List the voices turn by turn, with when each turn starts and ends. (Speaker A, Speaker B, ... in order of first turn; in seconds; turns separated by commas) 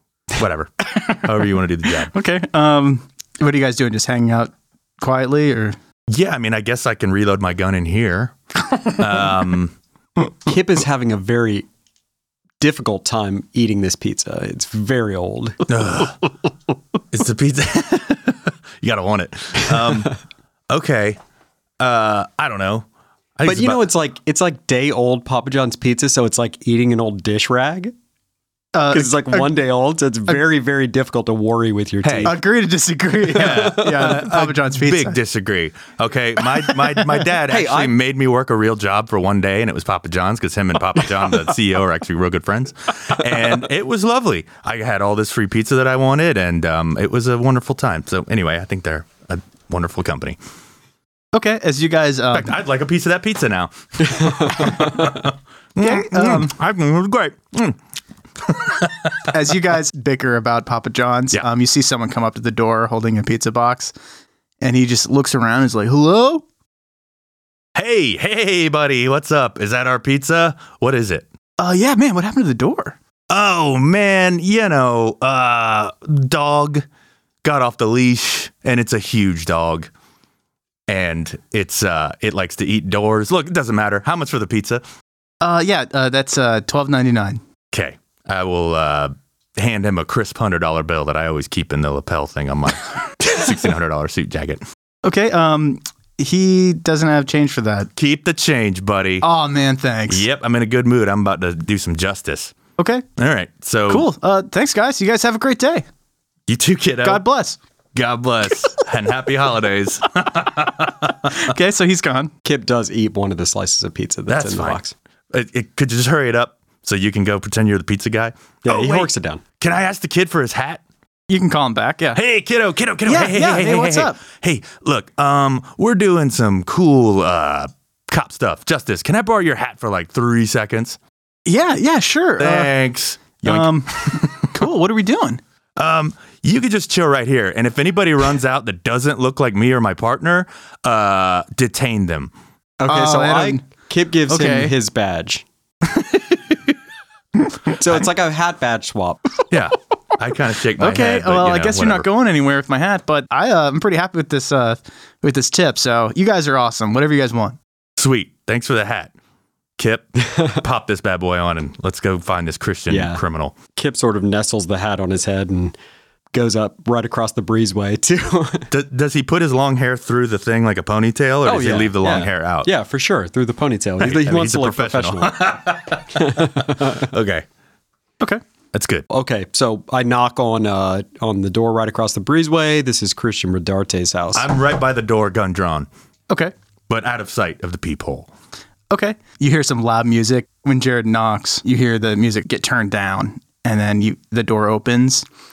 Speaker A: 0.3-2.1, Speaker B: 0.9-1.3, Speaker B: 2.1-5.8, Speaker A: 6.1-8.3, Speaker A: 8.9-9.7, Speaker C: 10.4-11.7, Speaker C: 12.6-15.7, Speaker A: 15.7-16.2, Speaker A: 17.1-20.2, Speaker A: 20.7-21.2, Speaker A: 21.8-22.9, Speaker A: 23.4-23.9, Speaker C: 23.4-27.9, Speaker B: 28.7-29.6, Speaker C: 28.9-32.4, Speaker A: 32.0-32.4, Speaker B: 32.2-35.2, Speaker A: 33.3-50.4, Speaker C: 37.5-38.0, Speaker B: 51.3-52.5, Speaker A: 52.3-57.8, Speaker C: 54.2-54.8, Speaker B: 55.8-56.5, Speaker A: 58.4-59.3, Speaker B: 59.3-63.9, Speaker B: 64.6-66.5, Speaker A: 67.8-71.3, Speaker B: 71.6-73.0, Speaker A: 73.3-76.8, Speaker A: 77.4-79.9, Speaker A: 80.9-84.8, Speaker B: 85.4-87.4, Speaker A: 87.7-94.6, Speaker B: 95.0-97.9, Speaker A: 98.0-99.3, Speaker B: 99.2-100.3, Speaker A: 100.1-102.5, Speaker B: 102.8-103.0, Speaker A: 103.2-104.1, Speaker B: 103.9-105.9, Speaker A: 106.5-107.2, Speaker B: 107.0-107.6, Speaker A: 108.0-111.4, Speaker B: 111.3-112.3, Speaker C: 112.5-114.9, Speaker A: 114.3-114.8, Speaker A: 115.3-120.8, Speaker C: 118.6-119.4, Speaker B: 121.3-122.2, Speaker A: 122.2-131.0, Speaker B: 123.1-124.2, Speaker B: 131.5-132.7, Speaker A: 132.4-134.5, Speaker B: 133.4-135.4, Speaker A: 135.8-142.3, Speaker C: 142.8-145.4, Speaker B: 142.9-143.6, Speaker B: 144.3-144.7, Speaker B: 146.0-146.6, Speaker B: 147.5-147.8, Speaker C: 147.8-149.2, Speaker A: 149.5-152.1, Speaker B: 150.8-157.6, Speaker A: 158.0-159.1, Speaker A: 159.8-163.6, Speaker C: 160.3-160.6, Speaker C: 162.9-163.2, Speaker C: 163.8-165.8, Speaker C: 166.3-168.7, Speaker A: 168.7-172.7, Speaker C: 171.4-175.6, Speaker A: 174.0-177.4, Speaker C: 176.2-177.1, Speaker A: 178.7-179.1, Speaker C: 179.1-184.5, Speaker A: 184.3-185.9, Speaker A: 186.9-188.3, Speaker B: 188.9-195.2